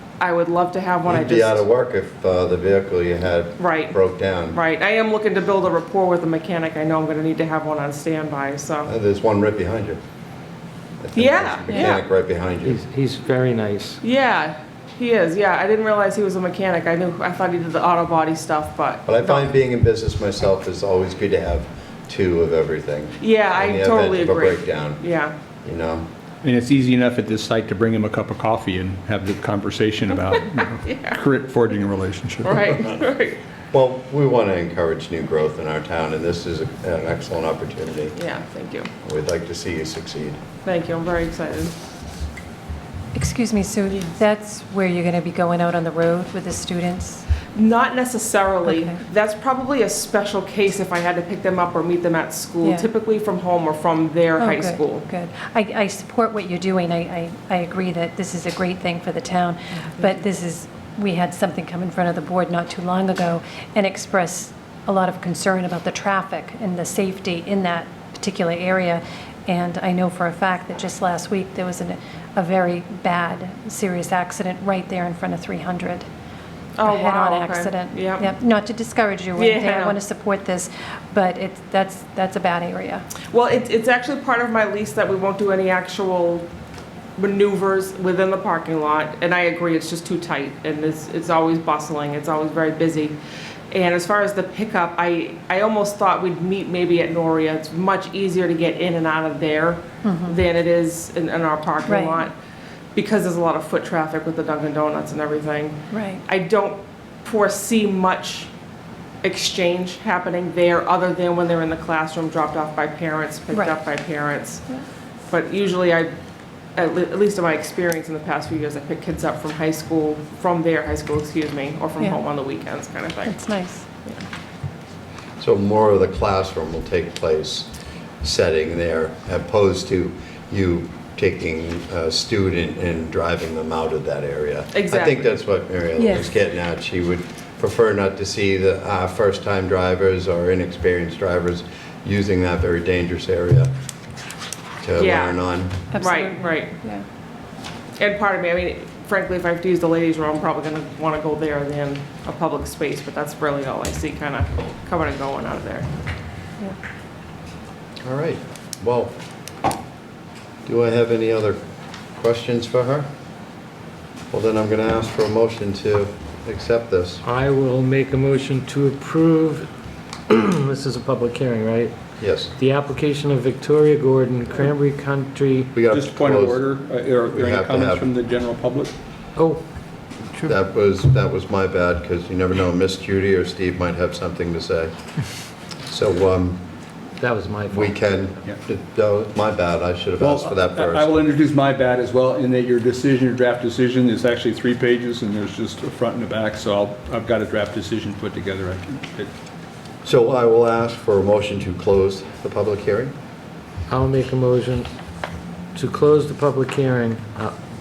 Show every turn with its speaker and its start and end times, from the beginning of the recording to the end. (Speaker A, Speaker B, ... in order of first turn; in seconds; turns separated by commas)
Speaker A: 0.2-1.6, Speaker B: 1.1-4.6, Speaker A: 3.6-4.0, Speaker A: 4.5-8.9, Speaker B: 8.8-10.0, Speaker B: 11.0-12.8, Speaker A: 11.1-12.0, Speaker C: 12.6-14.0, Speaker A: 14.0-19.4, Speaker B: 19.1-25.0, Speaker A: 23.2-25.3, Speaker B: 25.6-26.1, Speaker D: 26.4-32.7, Speaker A: 30.8-31.2, Speaker A: 32.4-33.4, Speaker B: 33.7-38.1, Speaker A: 38.1-38.9, Speaker B: 39.0-40.4, Speaker A: 40.6-41.7, Speaker E: 43.1-47.2, Speaker A: 47.5-55.1, Speaker E: 48.7-49.0, Speaker E: 54.4-76.0, Speaker A: 76.8-78.3, Speaker E: 76.8-83.0, Speaker A: 79.4-80.0, Speaker A: 83.3-86.5, Speaker A: 87.2-93.1, Speaker A: 93.7-102.3, Speaker E: 100.0-100.4, Speaker E: 101.8-102.2, Speaker A: 102.9-108.5, Speaker E: 105.9-106.2, Speaker A: 109.2-114.6, Speaker A: 115.3-116.1, Speaker A: 116.8-123.4, Speaker E: 123.2-123.8, Speaker B: 125.4-127.7, Speaker B: 128.2-143.7, Speaker A: 134.7-135.3, Speaker B: 144.8-145.8, Speaker A: 144.9-145.3, Speaker E: 145.9-147.0, Speaker A: 145.9-146.7, Speaker A: 148.0-155.9, Speaker B: 158.0-159.1, Speaker B: 160.6-161.6, Speaker B: 162.2-163.1, Speaker B: 164.3-167.2, Speaker C: 167.2-169.7, Speaker C: 170.3-171.9, Speaker B: 172.2-172.5, Speaker C: 172.6-175.8, Speaker B: 175.7-176.6, Speaker D: 175.8-178.9, Speaker B: 177.3-178.1, Speaker C: 179.3-179.6, Speaker B: 180.4-184.9, Speaker B: 185.9-186.6, Speaker C: 187.2-187.9, Speaker B: 187.7-191.1, Speaker D: 190.2-199.3, Speaker B: 200.0-203.1, Speaker C: 203.9-204.9, Speaker C: 205.7-207.5